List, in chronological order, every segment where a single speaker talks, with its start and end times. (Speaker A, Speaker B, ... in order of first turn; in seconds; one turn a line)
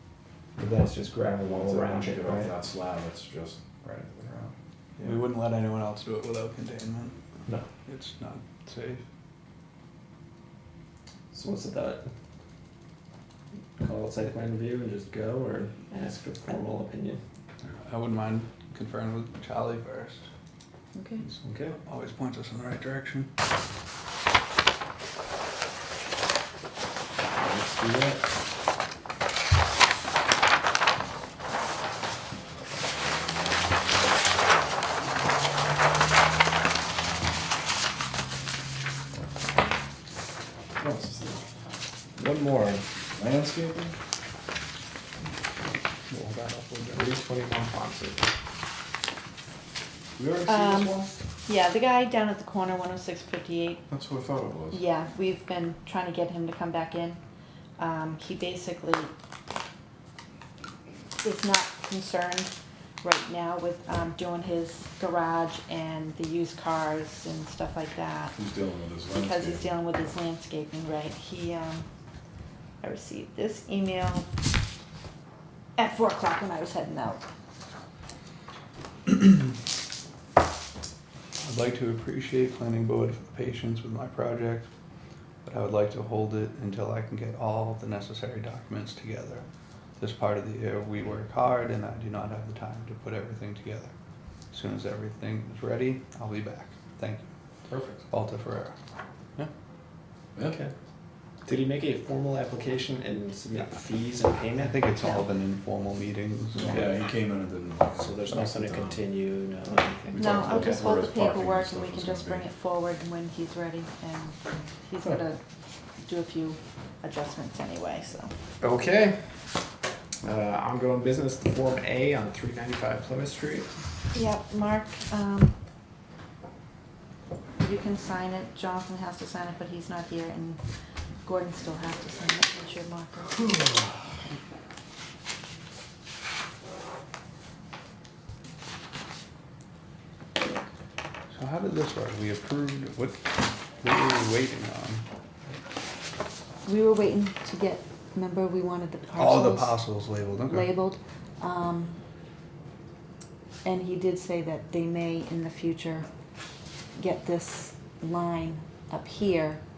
Speaker A: 0.6-2.5
Speaker B: 1.5-4.5
Speaker C: 5.0-7.2
Speaker C: 7.8-9.0
Speaker A: 11.3-12.1
Speaker A: 13.8-17.2
Speaker C: 17.6-20.2
Speaker D: 20.9-21.2
Speaker C: 21.2-23.3
Speaker A: 21.4-21.8
Speaker A: 27.4-28.2
Speaker B: 40.8-41.5
Speaker A: 42.2-42.8
Speaker B: 43.1-44.0
Speaker C: 46.1-47.1
Speaker A: 46.9-48.3
Speaker B: 50.2-51.1
Speaker D: 50.5-53.9
Speaker B: 53.9-54.8
Speaker D: 54.7-57.2
Speaker D: 57.8-59.1
Speaker D: 61.2-68.4
Speaker B: 68.3-69.7
Speaker D: 69.1-71.8
Speaker D: 72.8-74.3
Speaker D: 75.8-77.2
Speaker C: 81.4-84.7
Speaker C: 85.4-89.4
Speaker C: 90.0-93.9
Speaker C: 94.5-97.3
Speaker A: 97.7-98.0
Speaker C: 98.1-98.8
Speaker A: 100.5-100.7
Speaker A: 101.4-104.8
Speaker C: 104.5-106.8
Speaker B: 106.6-109.0
Speaker A: 108.0-110.9
Speaker B: 110.1-112.5
Speaker D: 110.2-115.4
Speaker D: 116.0-118.3
Speaker A: 118.6-119.3
Speaker A: 120.2-123.7
Speaker D: 124.1-125.6
Speaker D: 127.6-130.6
Speaker D: 131.2-133.4
Speaker C: 133.5-134.0
Speaker C: 141.3-145.1
Speaker D: 146.6-152.0
Speaker C: 149.2-150.8
Speaker D: 153.6-156.1
Speaker D: 156.9-159.6